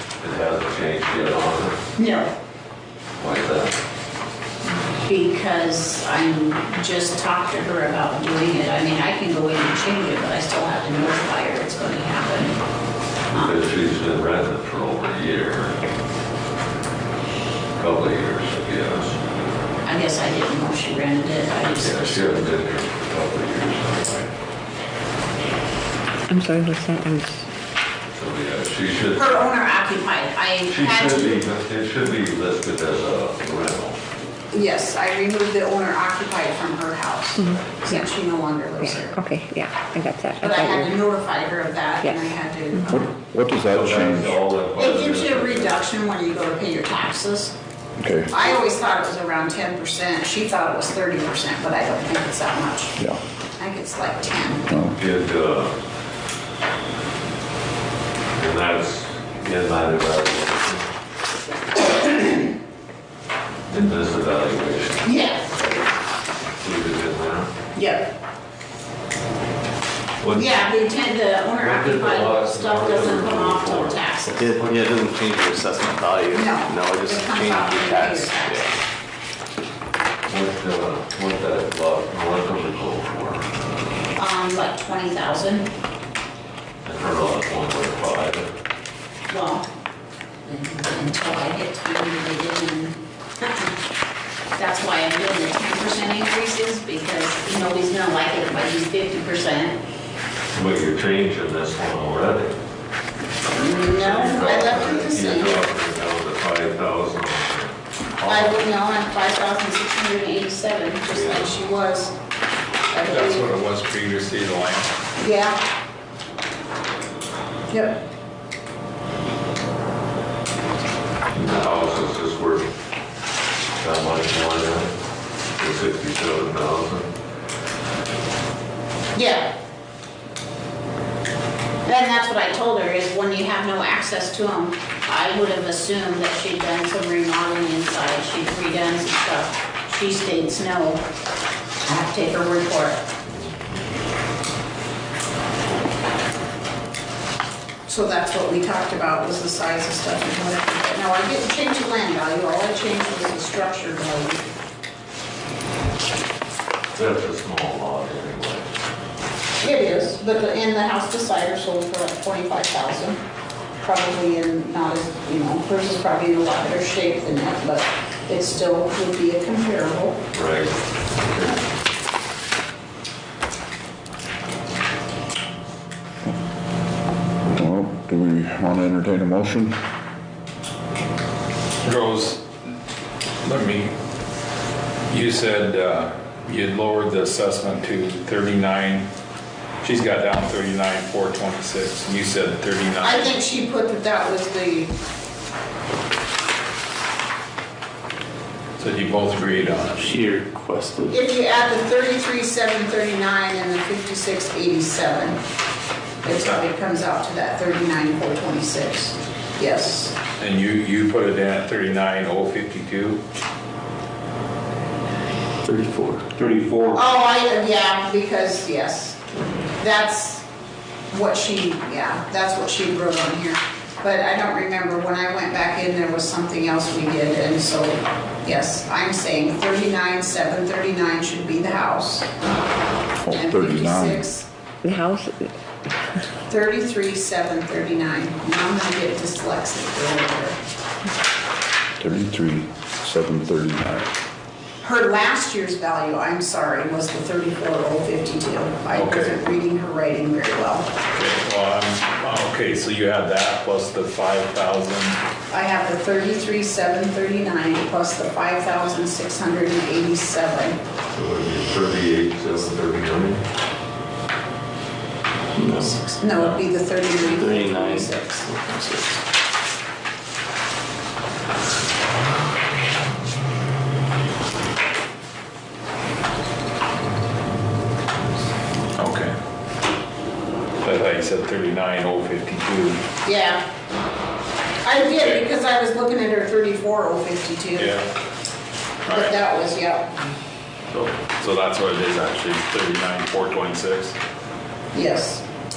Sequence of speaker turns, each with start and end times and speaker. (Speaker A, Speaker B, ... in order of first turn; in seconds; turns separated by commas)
Speaker A: 0.2-1.8, Speaker B: 2.0-2.3, Speaker A: 3.2-3.8, Speaker B: 5.0-12.6, Speaker A: 13.3-15.8, Speaker B: 13.3-13.6, Speaker A: 17.8-19.2, Speaker B: 19.8-22.5, Speaker A: 21.8-24.3, Speaker C: 26.3-27.5, Speaker A: 28.1-29.6, Speaker B: 29.2-31.4, Speaker A: 30.6-34.0, Speaker B: 34.5-39.2, Speaker C: 37.4-38.1, Speaker C: 38.8-41.2, Speaker B: 40.4-43.1, Speaker C: 42.0-43.0, Speaker D: 42.9-44.3, Speaker A: 43.6-45.8, Speaker B: 44.8-47.5, Speaker D: 48.0-48.4, Speaker B: 48.3-53.0, Speaker B: 53.6-54.7, Speaker D: 54.7-55.0, Speaker A: 54.9-55.8, Speaker A: 58.3-60.9, Speaker B: 61.9-62.4, Speaker A: 63.7-65.9, Speaker B: 65.0-65.5, Speaker A: 66.5-67.5, Speaker B: 67.8-68.1, Speaker A: 70.2-70.7, Speaker B: 70.3-74.5, Speaker A: 71.6-74.0, Speaker E: 74.3-78.7, Speaker B: 76.3-78.7, Speaker A: 80.2-83.5, Speaker B: 84.2-85.7, Speaker A: 86.8-88.5, Speaker B: 89.3-89.7, Speaker B: 90.5-93.7, Speaker B: 94.5-99.8, Speaker A: 100.5-102.6, Speaker B: 103.5-105.6, Speaker A: 103.6-108.7, Speaker B: 108.2-112.1, Speaker A: 111.1-111.6, Speaker B: 112.9-113.5, Speaker F: 113.0-114.9, Speaker B: 115.2-115.6, Speaker B: 117.7-118.0, Speaker A: 121.3-122.7, Speaker A: 123.8-124.9, Speaker A: 125.6-127.1, Speaker B: 129.1-129.6, Speaker B: 131.8-141.1, Speaker B: 141.8-143.0, Speaker A: 143.3-143.7, Speaker B: 147.9-154.5, Speaker A: 156.9-158.7, Speaker B: 159.6-163.2, Speaker B: 163.8-170.2, Speaker A: 170.3-170.8, Speaker A: 171.3-171.6, Speaker D: 177.4-179.8, Speaker F: 181.8-182.5, Speaker F: 183.4-183.9, Speaker F: 185.1-189.1, Speaker F: 189.8-193.3, Speaker B: 193.0-194.9, Speaker F: 198.8-200.2, Speaker E: 200.0-201.2, Speaker B: 201.1-205.4, Speaker B: 206.2-210.2, Speaker F: 206.2-206.6, Speaker F: 210.4-213.2, Speaker E: 215.6-216.3, Speaker F: 216.4-217.0, Speaker B: 216.9-219.2, Speaker B: 219.8-220.4, Speaker B: 221.1-232.3, Speaker D: 233.2-234.3, Speaker B: 233.3-234.5, Speaker C: 234.8-235.5, Speaker B: 236.4-240.6, Speaker D: 242.0-244.1, Speaker B: 244.8-250.9, Speaker F: 248.9-249.4, Speaker F: 251.1-255.2, Speaker B: 255.5-260.8, Speaker A: 261.1-263.4, Speaker E: 265.6-266.0, Speaker B: 265.8-268.4, Speaker F: 266.4-266.6, Speaker E: 267.2-269.2, Speaker F: 279.0-279.4, Speaker F: 280.8-283.0, Speaker B: 283.2-283.6, Speaker B: 284.8-288.0, Speaker F: 287.8-288.1, Speaker F: 289.1-289.4, Speaker B: 289.1-290.1, Speaker F: 290.9-294.2, Speaker B: 294.9-295.4